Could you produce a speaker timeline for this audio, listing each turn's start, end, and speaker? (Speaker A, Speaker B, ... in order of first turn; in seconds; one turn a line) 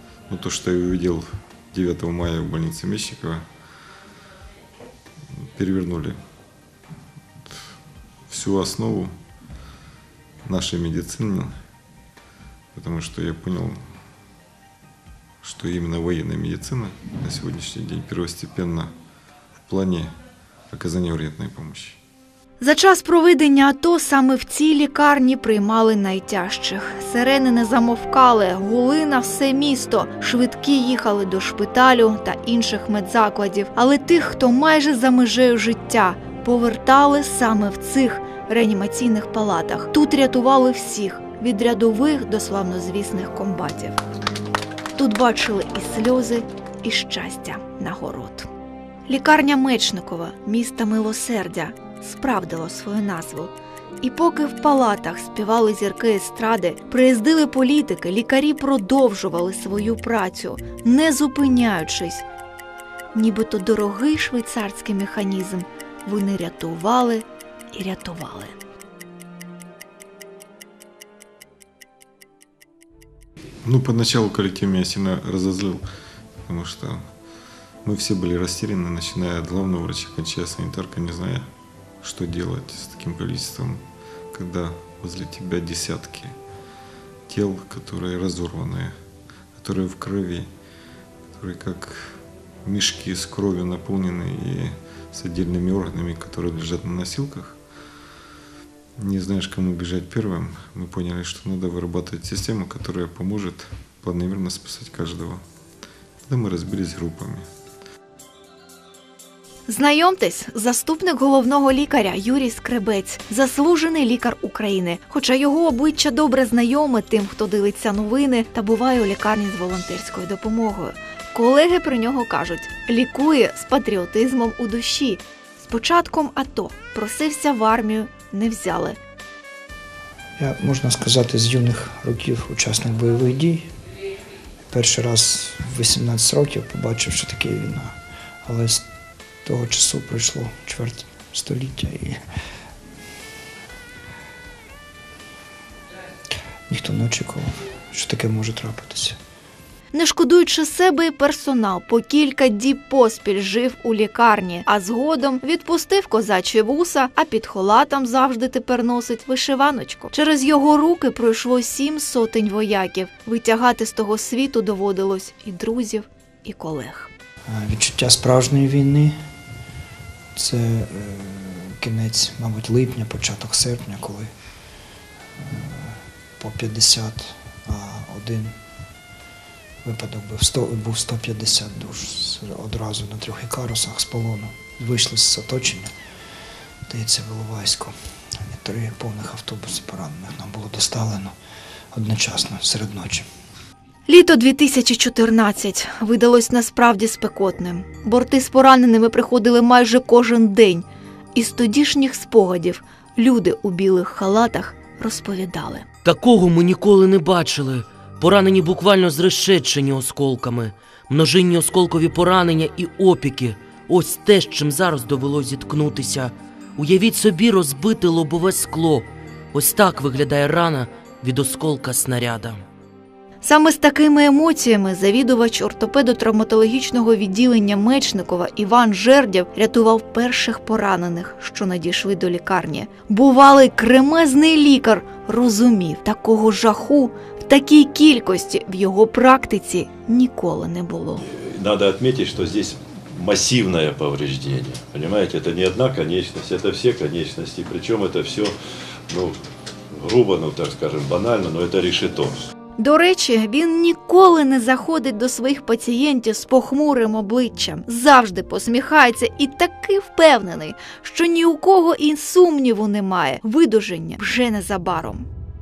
Speaker A: 0.3-3.5
Speaker A: 5.6-6.2
Speaker A: 8.3-9.1
Speaker A: 10.5-11.6
Speaker A: 12.8-13.8
Speaker A: 15.4-18.9
Speaker A: 19.6-20.1
Speaker A: 20.7-22.0
Speaker B: 22.6-44.0
Speaker B: 45.0-48.5
Speaker B: 49.1-62.2
Speaker B: 63.1-68.6
Speaker A: 73.6-75.8
Speaker A: 76.5-77.0
Speaker A: 77.8-81.5
Speaker A: 82.0-86.3
Speaker A: 87.3-88.9
Speaker A: 89.6-90.5
Speaker A: 91.4-97.6
Speaker A: 99.0-105.4
Speaker A: 106.3-107.5
Speaker B: 109.7-129.0
Speaker C: 130.4-133.7
Speaker C: 134.7-137.9
Speaker C: 138.4-138.9
Speaker C: 139.4-142.2
Speaker C: 146.7-149.2
Speaker B: 149.9-167.1
Speaker C: 167.5-169.1
Speaker C: 170.4-174.3
Speaker C: 175.4-178.6
Speaker C: 179.8-185.9
Speaker C: 186.9-187.9
Speaker C: 188.5-191.3
Speaker C: 191.9-193.3
Speaker B: 194.1-205.9
Speaker D: 206.1-222.6
Speaker B: 223.4-241.2
Speaker E: 241.3-248.6
Speaker E: 249.1-249.4
Speaker E: 249.9-252.5
Speaker B: 252.8-265.3